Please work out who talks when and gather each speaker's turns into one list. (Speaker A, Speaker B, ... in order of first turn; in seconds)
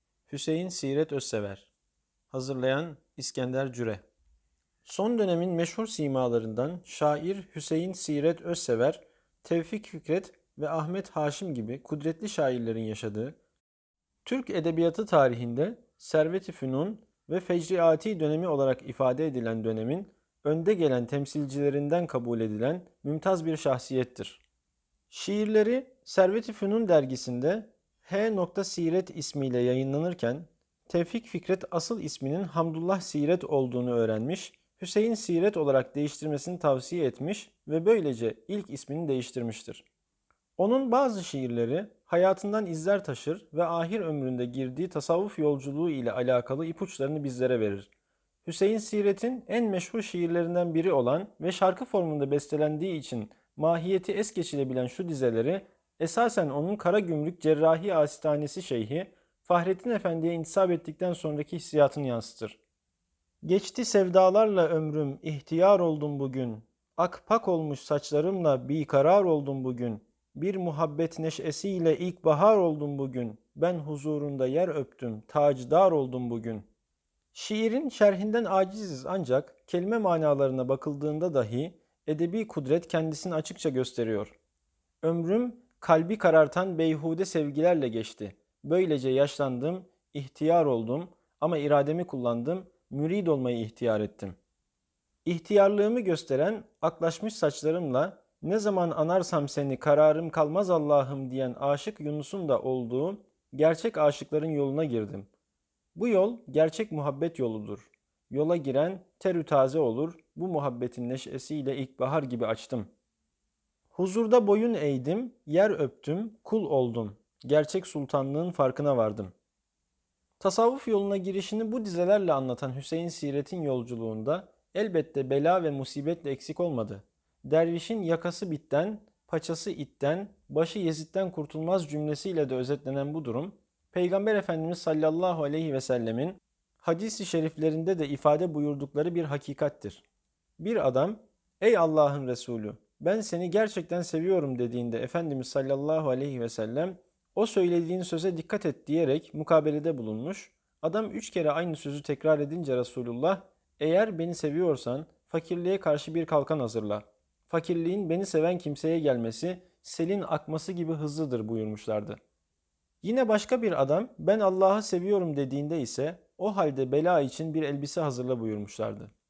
Speaker A: 0.3-1.7, 2.3-4.0, 4.8-13.4, 14.2-24.4, 25.1-39.8, 40.6-47.9, 48.4-62.6, 63.4-76.7, 77.3-84.3, 85.0-94.4, 95.2-105.3, 105.9-112.9, 113.9-119.3, 120.4-140.0, 140.6-162.2, 163.0-169.1